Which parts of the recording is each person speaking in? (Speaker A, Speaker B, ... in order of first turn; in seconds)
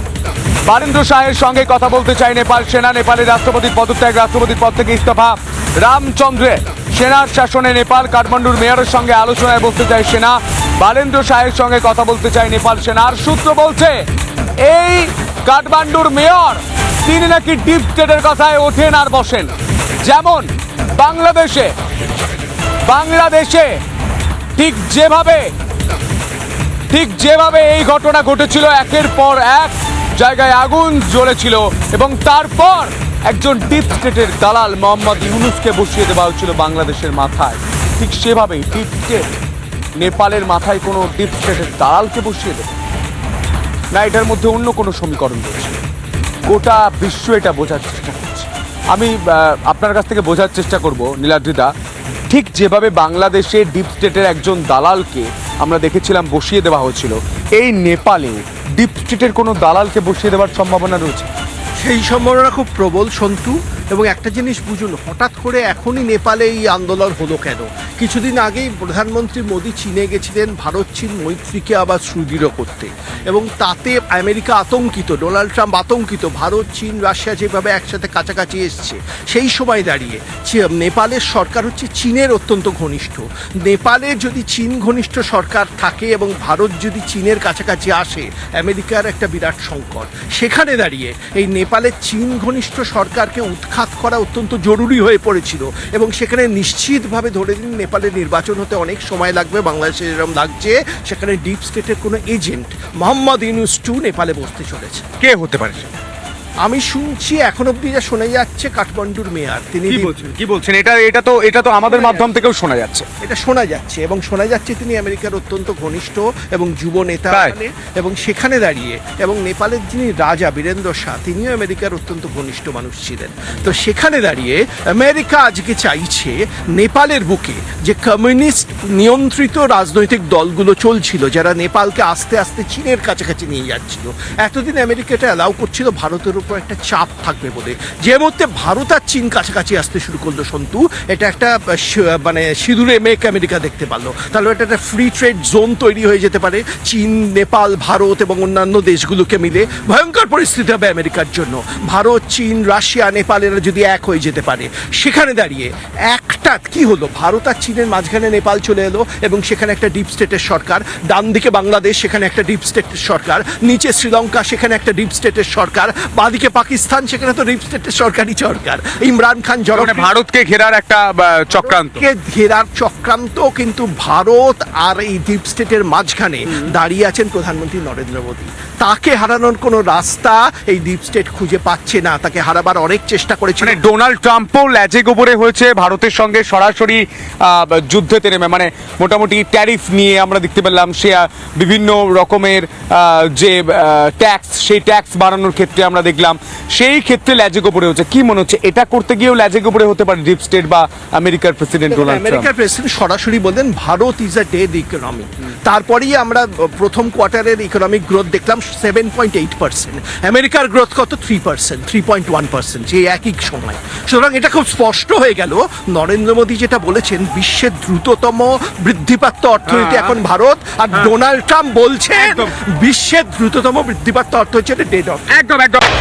Speaker A: 0.7-14.0, 14.6-19.5, 20.0-21.7, 22.9-23.8, 24.6-25.5, 26.9-39.4, 40.0-42.7, 43.9-45.8, 46.5-51.7, 52.3-61.3, 105.2-105.9, 109.9-113.1, 169.8-172.0, 183.6-202.5, 219.7-220.2, 222.2-222.5, 225.3-225.8
Speaker B: 61.8-105.0, 106.6-110.3, 111.9-112.3, 113.2-170.1, 171.5-183.8, 201.9-225.3